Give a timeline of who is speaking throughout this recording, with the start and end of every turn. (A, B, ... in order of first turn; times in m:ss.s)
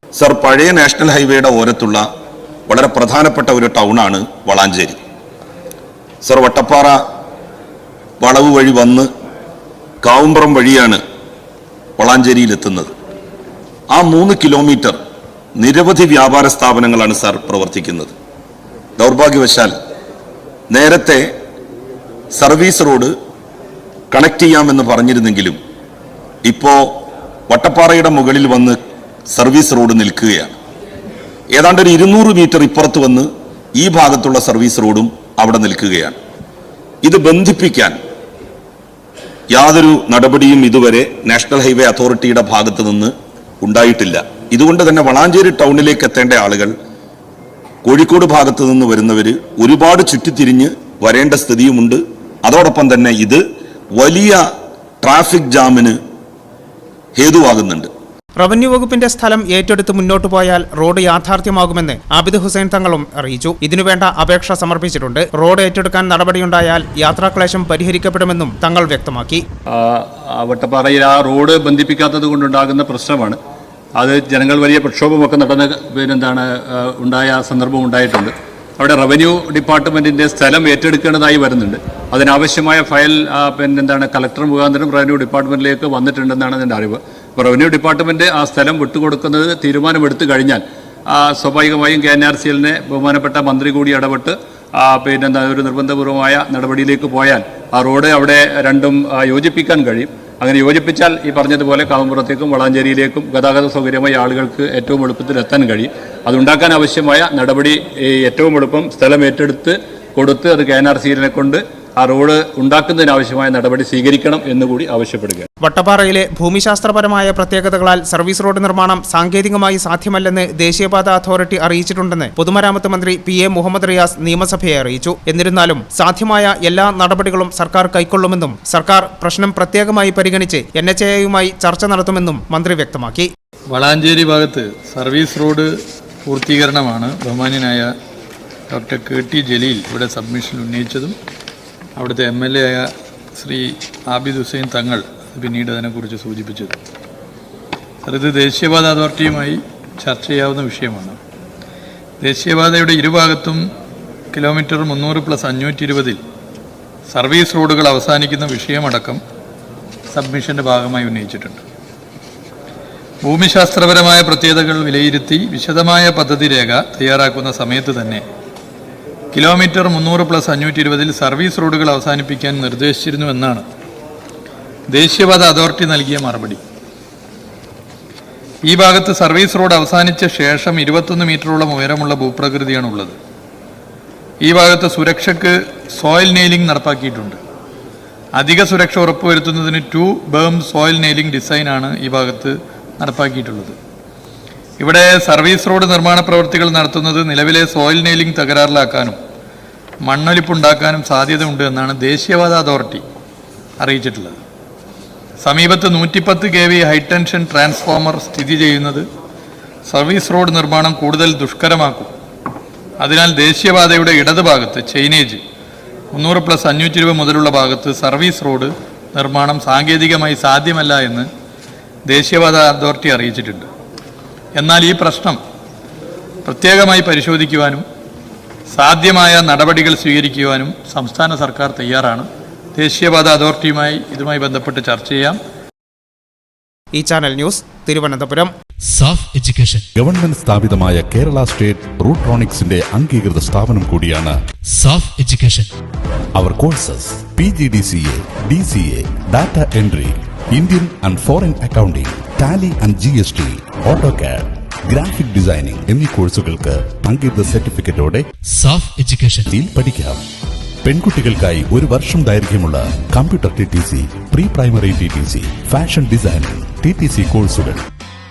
0:00.2-0:02.0 A
0:02.7-0:05.0 A
0:06.2-0:07.0 A
0:08.2-0:09.1 A
0:10.0-0:11.0 A
0:12.0-0:12.9 A
0:13.9-0:15.0 A
0:15.6-0:18.1 A
0:19.0-0:19.7 A
0:20.7-0:21.3 A
0:22.3-0:23.1 A
0:24.1-0:25.6 A
0:26.4-0:26.9 A
0:27.5-0:28.8 A
0:29.3-0:30.6 A
0:31.5-0:36.2 A
0:37.0-0:38.0 A
0:39.5-0:46.7 A
0:47.8-0:53.4 A
0:54.0-0:54.4 A
0:55.0-0:56.0 A
0:57.1-0:57.9 A
0:58.4-1:09.4 B
1:09.7-1:13.4 C
1:14.0-1:55.5 C
1:55.6-2:13.3 B
2:13.7-2:15.7 D
2:16.3-2:17.9 D
2:18.7-2:21.1 D
2:22.0-2:26.8 D
2:28.0-2:31.2 D
2:32.2-2:33.6 D
2:34.3-2:36.2 D
2:37.1-2:39.2 D
2:40.1-2:41.6 D
2:43.2-2:48.2 D
2:49.3-2:53.6 D
2:54.9-2:56.6 D
2:58.7-3:03.2 D
3:04.4-3:07.4 D
3:08.4-3:13.8 D
3:14.8-3:19.2 D
3:20.0-3:23.0 D
3:23.8-3:24.4 D
3:25.4-3:29.0 D
3:29.9-3:32.1 D
3:33.0-3:35.4 D
3:36.1-3:41.3 D
3:42.1-3:43.7 D
3:44.6-3:45.4 D
3:46.4-3:47.8 D
3:48.7-3:55.4 D
3:56.9-3:58.5 B
3:58.9-3:59.9 E
4:00.0-4:04.3 F
4:04.7-4:05.7 E
4:06.3-4:18.2 F
4:18.5-4:19.5 E
4:19.5-4:20.2 F
4:20.8-4:27.8 F